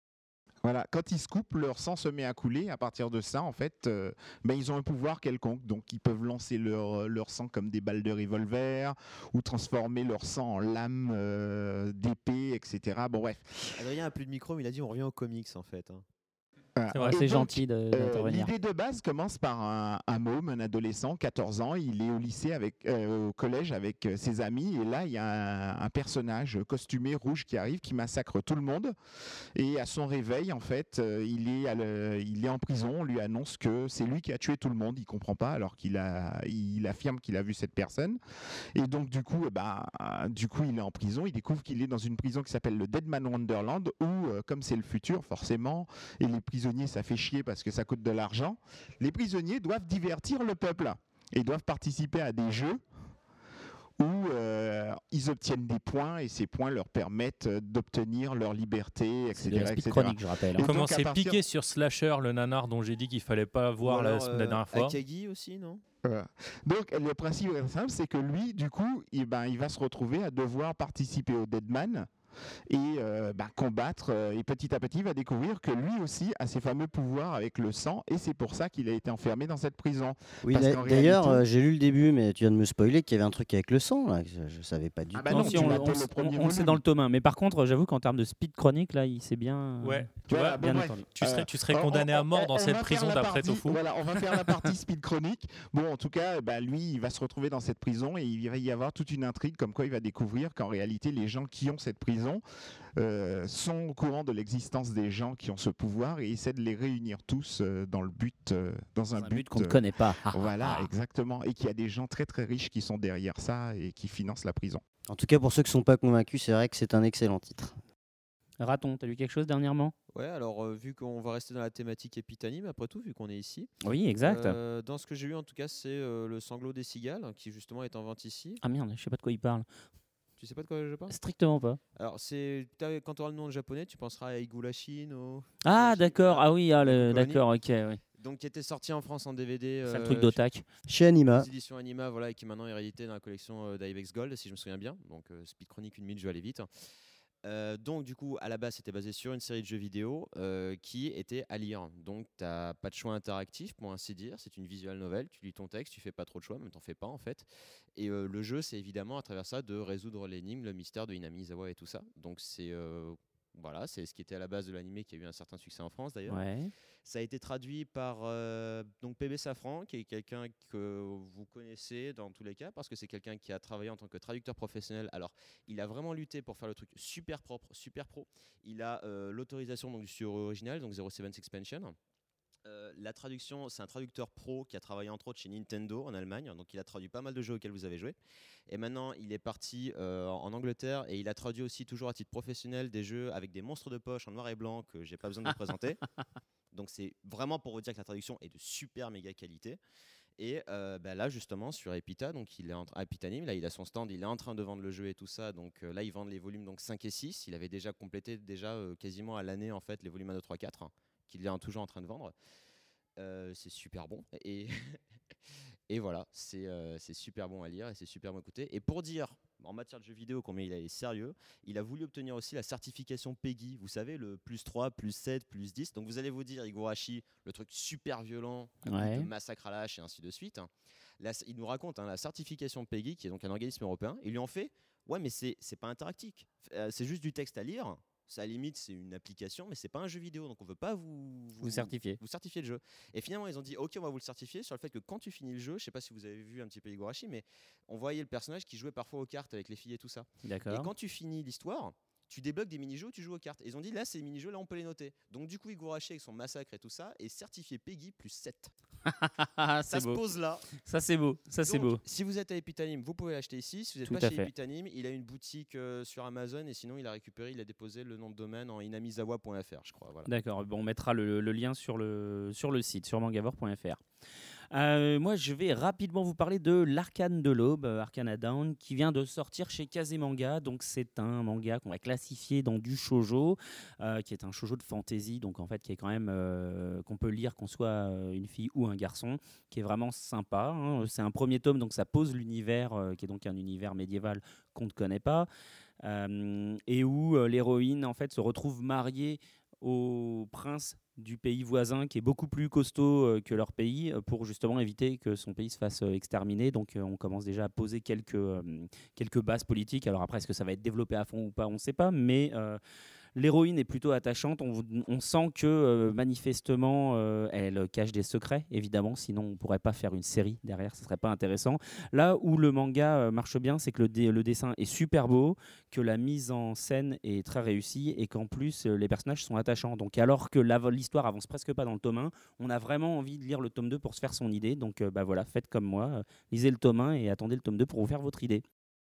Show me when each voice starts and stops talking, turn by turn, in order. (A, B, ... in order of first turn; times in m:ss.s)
0:00.6-0:13.8 A
0:13.8-0:16.0 B
0:16.8-0:28.9 A
0:16.9-0:17.2 C
0:17.1-0:18.5 D
0:29.6-0:38.2 A
0:38.8-0:52.8 A
0:54.0-1:01.4 A
0:59.4-1:00.7 D
1:00.6-1:05.0 C
1:03.8-1:05.8 B
1:06.0-1:12.1 A
1:12.7-1:21.4 A
1:20.4-1:25.9 E
1:25.1-1:26.8 A
1:25.3-1:31.0 D
1:29.8-1:30.6 C
1:30.3-1:42.4 A
1:31.2-1:34.7 C
1:43.0-1:54.8 A
1:49.2-1:50.9 D
1:55.1-1:57.8 E
1:58.6-1:59.9 D
2:00.1-2:03.7 B
2:03.8-2:04.6 D
2:04.2-2:08.6 B
2:08.6-2:09.7 D
2:10.4-2:11.1 B
2:11.1-2:11.8 D
2:12.0-2:17.4 B
2:15.6-2:18.0 D
2:18.2-2:20.4 B
2:19.8-2:20.6 D
2:20.9-2:21.5 E
2:21.3-2:26.7 B
2:27.4-2:46.4 B
2:46.3-2:46.7 D
2:47.0-3:02.0 B
3:02.6-3:08.2 B
3:08.7-3:16.0 B
3:16.7-3:19.8 B
3:20.4-3:32.3 B
3:33.2-3:35.0 B
3:35.9-4:18.7 B
3:48.9-3:49.3 D
4:01.6-4:02.2 D
4:10.4-4:10.9 D
4:19.1-4:20.2 D
4:19.9-4:20.7 B
4:20.8-4:22.0 D
4:21.6-4:30.3 B
4:24.1-4:24.5 D
4:30.3-4:34.0 D
4:34.7-4:55.5 D
4:56.0-5:12.8 D
5:13.4-5:38.6 D